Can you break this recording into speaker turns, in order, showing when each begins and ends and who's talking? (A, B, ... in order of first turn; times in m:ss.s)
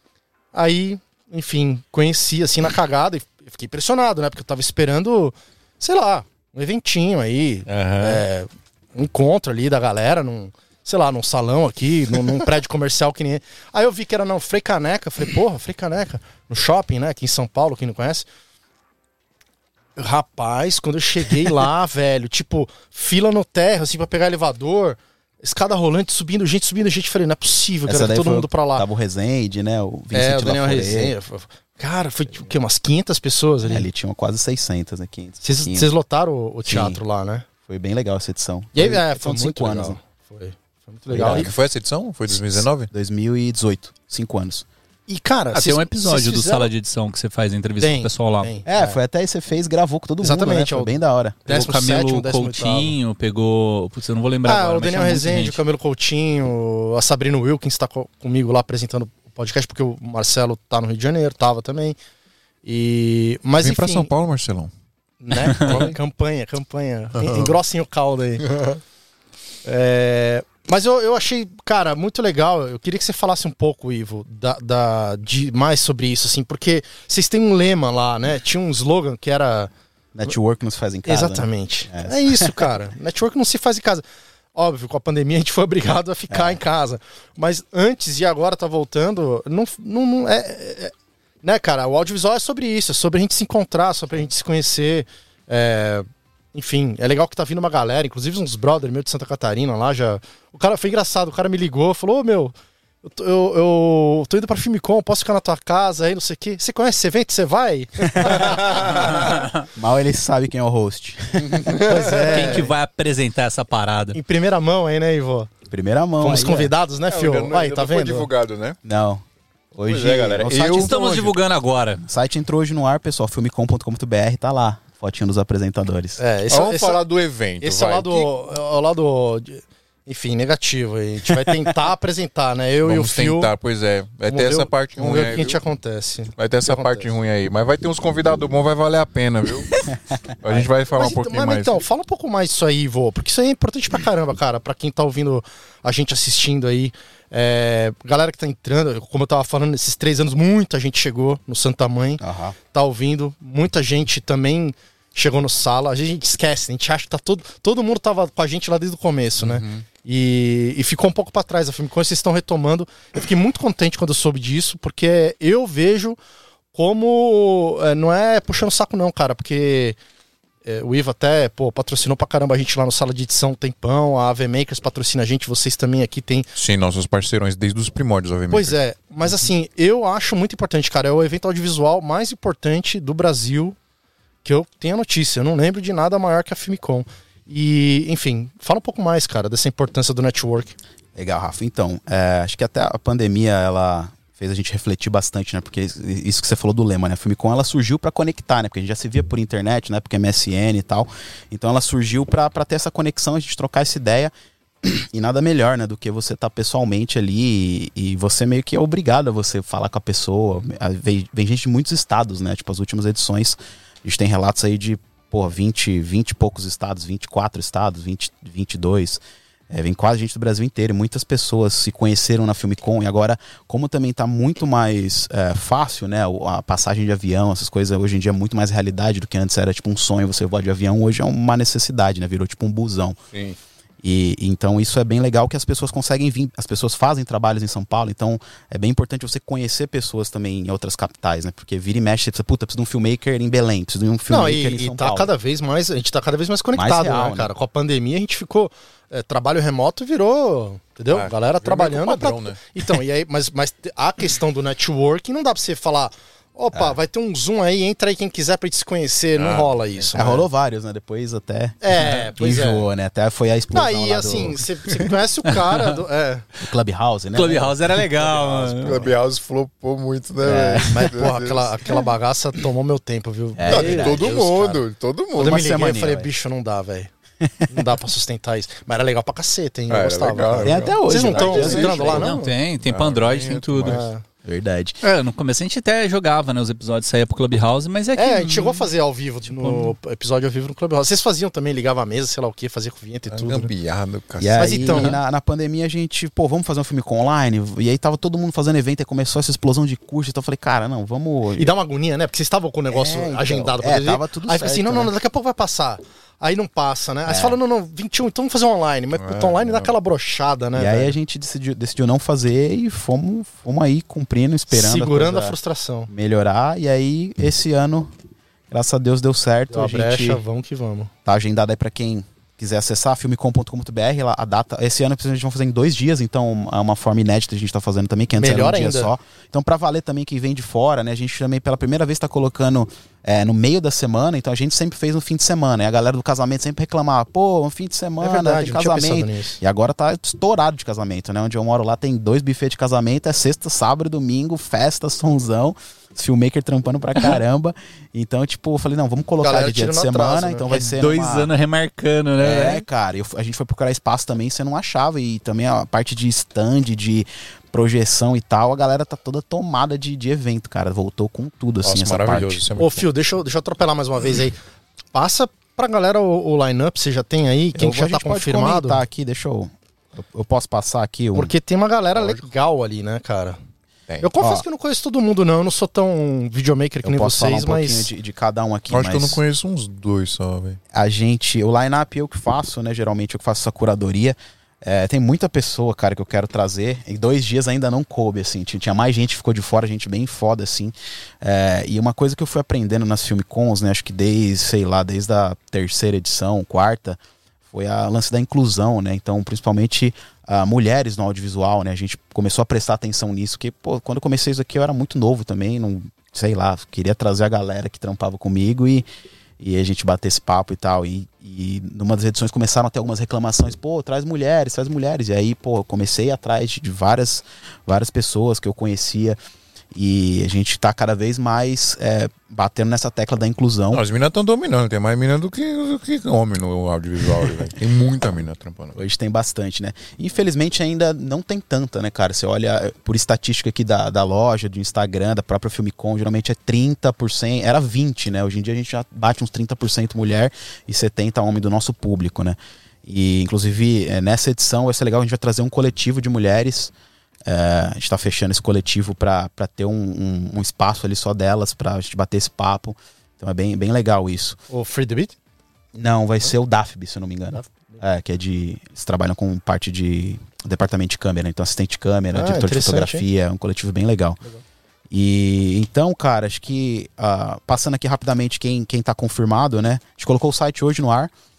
0:00.5-0:18.2 A
0:07.7-0:08.2 B
0:20.0-0:28.8 A
0:27.9-0:31.1 C
0:30.1-0:33.9 A
0:33.6-0:35.9 C
0:35.4-0:37.4 A
0:36.6-0:37.0 C
0:37.6-0:40.0 C
0:38.7-0:41.5 A
0:41.1-0:41.5 C
0:41.1-0:42.9 B
0:42.6-0:44.6 C
0:45.1-0:46.7 A
0:45.5-0:48.5 D
0:47.8-0:49.0 A
0:48.6-0:51.4 C
0:50.2-0:52.9 A
0:51.5-0:55.6 D
0:54.4-1:02.0 A
1:02.6-1:04.1 A
1:03.6-1:04.7 B
1:05.2-1:08.7 A
1:05.4-1:06.0 B
1:07.2-1:07.5 B
1:09.6-1:19.7 A
1:20.1-1:22.6 C
1:21.0-1:24.0 A
1:24.5-1:49.1 A
1:26.3-1:26.6 C
1:48.2-1:51.9 C
1:48.5-1:49.1 B
1:51.4-1:52.5 B
1:51.8-1:52.7 A
1:52.1-1:54.2 D
1:54.1-1:55.5 A
1:55.7-1:56.7 C
1:56.2-1:58.3 A
1:57.0-1:58.8 B
1:58.8-2:01.3 C
1:59.9-2:01.3 B
2:00.6-2:02.0 D
2:02.0-2:06.2 C
2:06.2-2:07.0 A
2:06.5-2:08.3 B
2:07.6-2:13.5 A
2:12.8-2:15.6 B
2:14.3-2:17.1 A
2:16.4-2:19.7 B
2:20.4-2:21.8 B
2:20.9-2:46.2 A
2:32.2-2:32.6 C
2:46.7-2:50.0 A
2:50.6-2:56.5 A
2:56.6-2:58.8 B
2:58.5-3:03.8 A
3:04.4-3:10.7 A
3:11.2-3:24.3 C
3:24.8-3:53.2 C
3:53.3-3:53.6 B
3:54.0-4:05.3 C
4:04.3-4:20.4 A
4:06.7-4:07.5 C
4:11.1-4:12.9 B
4:19.3-4:20.1 B
4:20.1-4:24.6 C
4:21.8-4:22.9 A
4:23.7-4:26.4 A
4:26.6-4:28.0 C
4:27.3-4:29.0 D
4:28.2-4:31.8 B
4:30.4-4:31.1 C
4:30.8-4:34.8 A
4:33.6-4:34.8 C
4:33.7-4:35.7 B
4:35.4-4:37.1 A
4:35.4-4:36.3 C
4:37.7-4:42.5 A
4:39.9-4:42.3 B
4:40.6-4:42.2 C
4:42.0-4:44.0 D
4:42.8-4:44.0 B
4:43.8-4:44.2 A
4:44.4-4:45.0 C
4:45.0-4:48.9 D
4:48.1-4:53.7 A
4:49.6-4:49.9 D
4:53.3-4:55.1 B
4:54.4-5:01.7 C
4:54.6-4:55.2 A
5:01.5-5:11.1 A
5:02.9-5:05.1 C
5:07.2-5:07.6 C
5:09.2-5:09.9 B
5:10.7-5:15.6 C
5:14.7-5:16.1 A
5:16.1-5:18.1 C
5:18.7-5:20.4 C
5:19.7-5:21.1 A
5:21.2-5:51.5 C
5:28.4-5:29.1 A
5:38.2-5:39.6 A
5:49.4-5:50.9 A
5:50.7-5:52.8 D
5:52.4-6:02.7 C
6:01.8-6:03.1 B
6:02.8-6:04.6 A
6:05.1-6:09.0 A
6:07.7-6:11.5 C
6:11.3-6:13.6 A
6:12.1-6:12.4 B
6:14.2-6:18.1 A
6:17.0-6:19.4 C
6:18.9-6:20.8 B
6:20.9-6:49.0 C
6:49.6-6:59.4 C
6:59.9-7:04.0 C
7:03.9-7:09.0 B
7:09.0-7:26.9 C
7:27.4-7:34.6 C
7:34.7-7:35.3 A
7:35.9-7:44.4 C
7:37.5-7:38.0 A
7:42.3-7:43.2 A
7:45.1-7:51.3 C